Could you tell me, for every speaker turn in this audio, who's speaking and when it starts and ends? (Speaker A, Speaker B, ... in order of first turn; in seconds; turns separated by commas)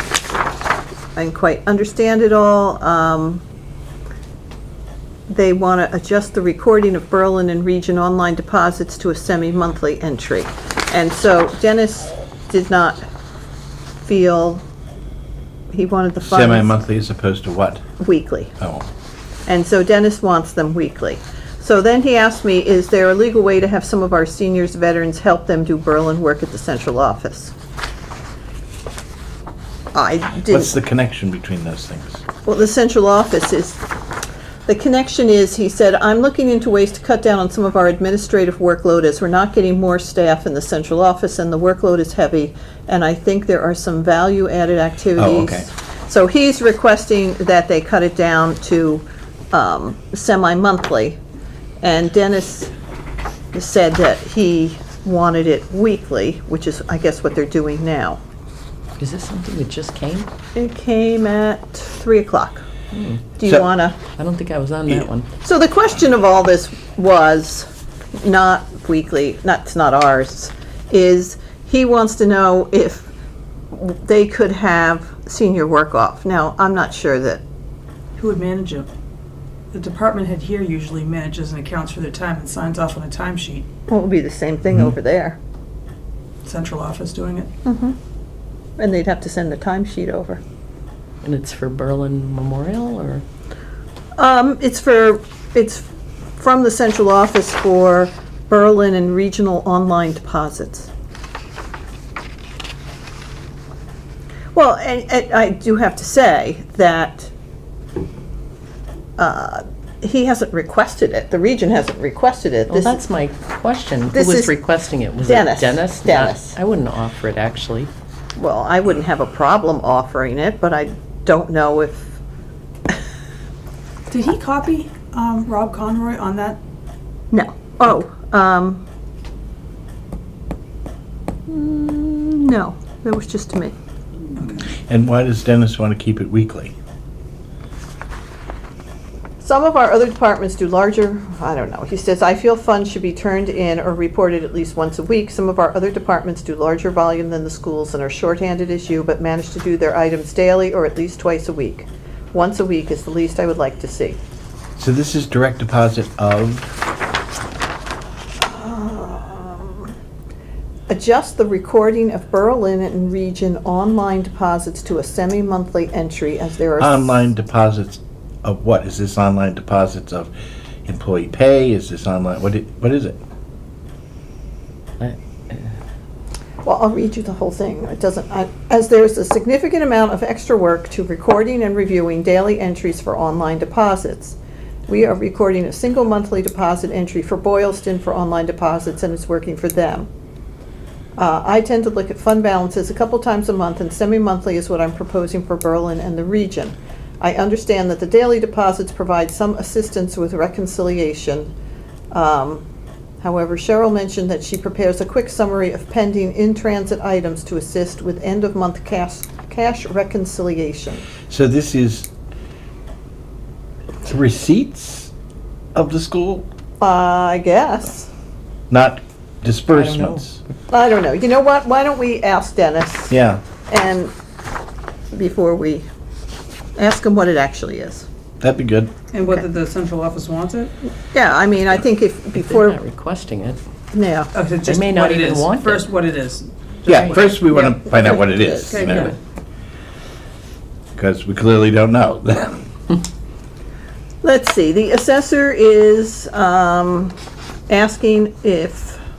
Speaker A: 1.1-3.4, Speaker A: 5.3-13.0, Speaker A: 14.0-14.6, Speaker A: 15.7-16.8, Speaker B: 16.2-17.8, Speaker A: 18.0-18.5, Speaker B: 18.6-18.9, Speaker A: 19.5-27.5, Speaker A: 29.9-30.7, Speaker B: 30.5-32.2, Speaker A: 32.4-33.8, Speaker A: 34.6-51.2, Speaker B: 45.2-45.7, Speaker A: 51.8-52.7, Speaker A: 53.5-58.2, Speaker C: 59.0-60.3, Speaker A: 60.5-62.6, Speaker C: 62.9-63.2, Speaker A: 63.4-64.0, Speaker C: 64.0-65.3, Speaker A: 65.4-73.1, Speaker A: 73.7-77.4, Speaker D: 78.2-78.9, Speaker D: 79.7-83.7, Speaker A: 83.9-85.4, Speaker D: 86.4-87.5, Speaker A: 87.6-88.0, Speaker A: 88.8-90.4, Speaker C: 91.2-93.2, Speaker A: 94.2-100.9, Speaker A: 104.5-107.3, Speaker A: 109.2-113.0, Speaker C: 112.7-117.9, Speaker A: 114.1-114.5, Speaker A: 115.2-116.5, Speaker A: 118.3-122.2, Speaker D: 124.1-126.6, Speaker A: 127.3-128.8, Speaker A: 131.5-133.7, Speaker D: 134.3-134.7, Speaker B: 134.8-136.7, Speaker A: 139.4-154.2, Speaker B: 154.8-156.8, Speaker A: 158.4-159.9, Speaker A: 160.9-167.3, Speaker B: 166.8-170.3, Speaker B: 170.8-173.2, Speaker C: 175.0-175.7, Speaker A: 176.6-184.4, Speaker A: 184.9-190.1, Speaker A: 191.2-201.5, Speaker A: 202.1-202.6, Speaker A: 203.2-211.0, Speaker B: 211.3-212.1, Speaker B: 214.0-215.1, Speaker B: 215.7-216.5, Speaker A: 216.8-218.1, Speaker B: 218.7-220.4, Speaker C: 219.7-220.2, Speaker A: 220.7-223.1, Speaker B: 223.1-223.4, Speaker A: 223.7-224.1, Speaker A: 225.1-225.8, Speaker A: 226.8-228.1, Speaker B: 228.4-228.9, Speaker D: 229.1-230.7, Speaker A: 231.1-232.8, Speaker C: 232.3-233.6, Speaker A: 233.9-234.3, Speaker D: 234.3-237.7, Speaker C: 234.6-235.8, Speaker B: 236.9-239.1, Speaker C: 236.9-237.2, Speaker A: 237.5-239.1, Speaker D: 238.7-239.2, Speaker B: 240.9-242.7, Speaker A: 244.2-247.1, Speaker A: 247.7-249.0